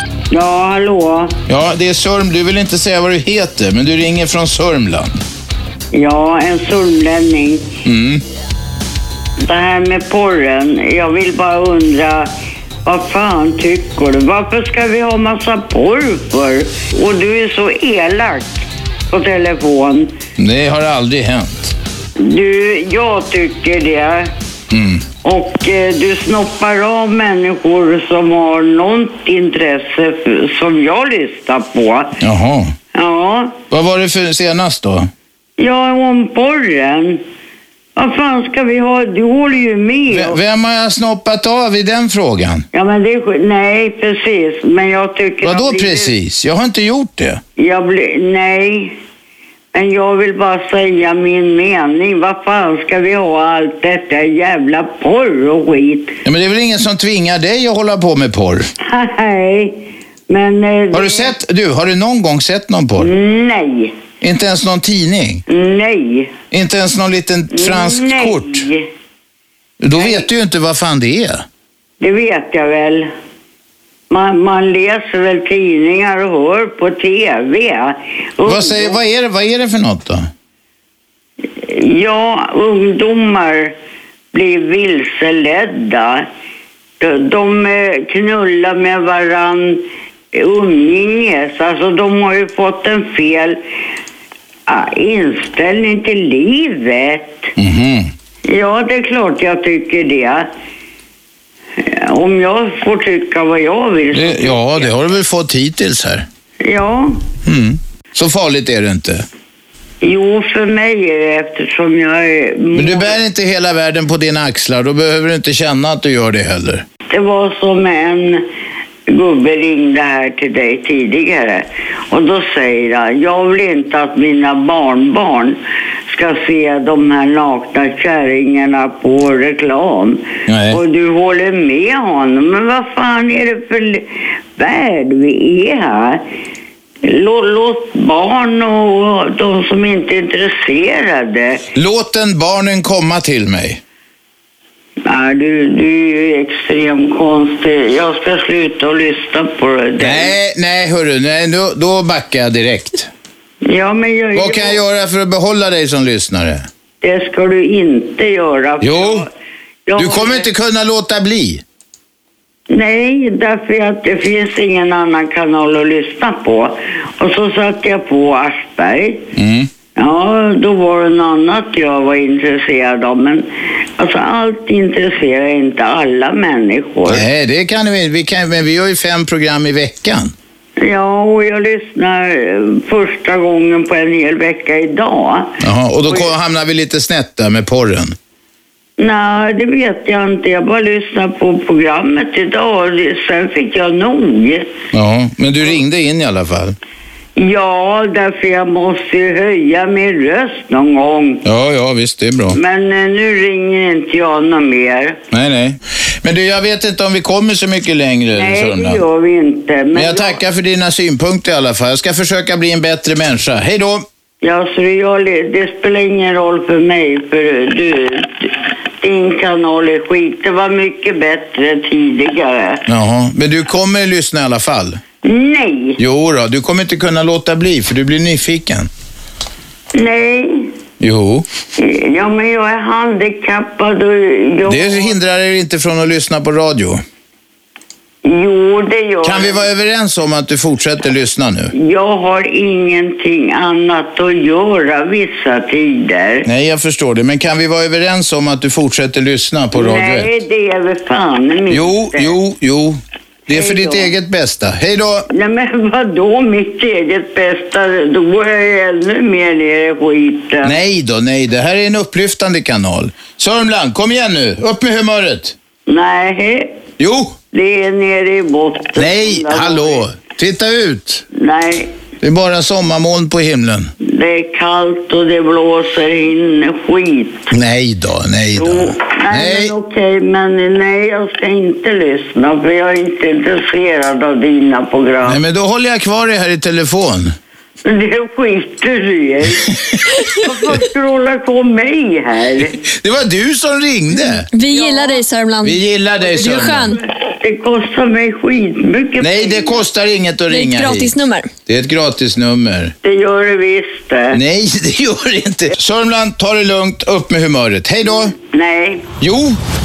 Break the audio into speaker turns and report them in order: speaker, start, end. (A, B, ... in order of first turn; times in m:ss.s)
0:00.3-0:01.3 A
0:01.5-0:05.1 B
0:05.9-0:07.6 A
0:07.8-0:08.2 B
0:09.4-0:12.3 A
0:12.8-0:20.1 A
0:20.4-0:21.7 B
0:22.2-0:24.3 A
0:24.7-0:25.0 B
0:25.2-0:32.2 A
0:32.2-0:32.7 B
0:32.9-0:33.6 A
0:33.7-0:35.1 B
0:35.6-0:37.2 A
0:38.0-0:40.4 A
0:40.1-0:42.6 B
0:42.7-0:46.1 A
0:45.4-0:47.4 B
0:47.6-0:48.9 A
0:49.7-0:56.1 A
0:56.2-0:58.7 B
0:58.8-1:01.3 A
1:00.9-1:03.1 B
1:03.0-1:03.9 A
1:04.2-1:05.4 B
1:05.5-1:06.3 A
1:06.5-1:08.6 B
1:07.5-1:08.8 A
1:09.8-1:11.4 B
1:09.9-1:10.3 A
1:12.0-1:13.1 A
1:14.1-1:19.0 A
1:18.4-1:20.2 B
1:21.6-1:23.7 A
1:24.3-1:26.2 A
1:27.0-1:29.8 A
1:30.3-1:33.6 A
1:34.7-1:37.5 A
1:37.6-1:38.1 B
1:38.4-1:40.4 A
1:41.8-1:44.7 A
1:44.1-1:46.2 B
1:46.6-1:47.2 A
1:47.4-1:49.2 B
1:50.0-1:53.2 A
1:52.7-1:56.8 B
1:57.1-1:58.4 A
1:59.1-2:05.6 A
2:06.1-2:16.2 A
2:10.5-2:10.8 B
2:17.0-2:21.6 A
2:21.7-2:23.8 B
2:25.0-2:30.4 A
2:30.0-2:33.1 B
2:33.6-2:34.8 A
2:34.3-2:36.6 B
2:37.0-2:39.3 A
2:38.8-2:39.2 B
2:39.8-2:40.5 A
2:40.0-2:41.6 B
2:42.7-2:49.2 A
2:49.4-2:49.7 B
2:49.9-2:53.4 A
2:54.0-2:57.3 A
2:57.1-3:00.3 B
3:00.8-3:06.3 A
3:05.6-3:08.1 B
3:09.0-3:14.7 A
3:14.9-3:16.8 B
3:17.4-3:21.4 A
3:21.4-3:22.6 B
3:22.5-3:25.2 A
3:25.3-3:29.0 B
3:28.3-3:30.4 A
3:29.9-3:34.0 B
3:34.4-3:42.8 A
3:42.9-3:45.0 B
3:45.2-3:46.0 A
3:46.0-3:48.9 B
3:49.9-3:50.7 A
3:51.0-3:51.4 B
3:51.8-3:55.1 A
3:54.6-3:57.0 B
3:58.2-3:59.6 A
3:59.2-4:01.7 B
4:01.7-4:06.5 A
4:06.4-4:10.3 B
4:09.7-4:12.4 A
4:11.7-4:15.3 B
4:13.5-4:14.1 A
4:15.3-4:20.8 A
4:20.6-4:25.5 B
4:25.9-4:26.7 A
4:27.0-4:27.3 B
4:27.5-4:30.0 A
4:29.0-4:31.2 B
4:31.3-4:31.9 A
4:32.2-4:33.9 B
4:34.0-4:37.5 A
4:37.5-4:39.7 B
4:38.6-4:45.4 A
4:45.2-4:47.3 B
4:47.8-4:49.7 A
4:50.2-4:52.8 A
4:52.8-4:54.5 B
4:54.5-4:55.8 C
4:54.7-4:55.2 A
4:55.6-4:57.0 B
4:56.3-4:59.8 A
4:56.4-4:57.0 C
4:59.2-5:01.1 B
5:00.5-5:01.5 C
5:01.7-5:02.9 B
5:03.0-5:04.4 A
5:04.3-5:08.3 B
5:08.5-5:09.0 A
5:09.2-5:09.6 B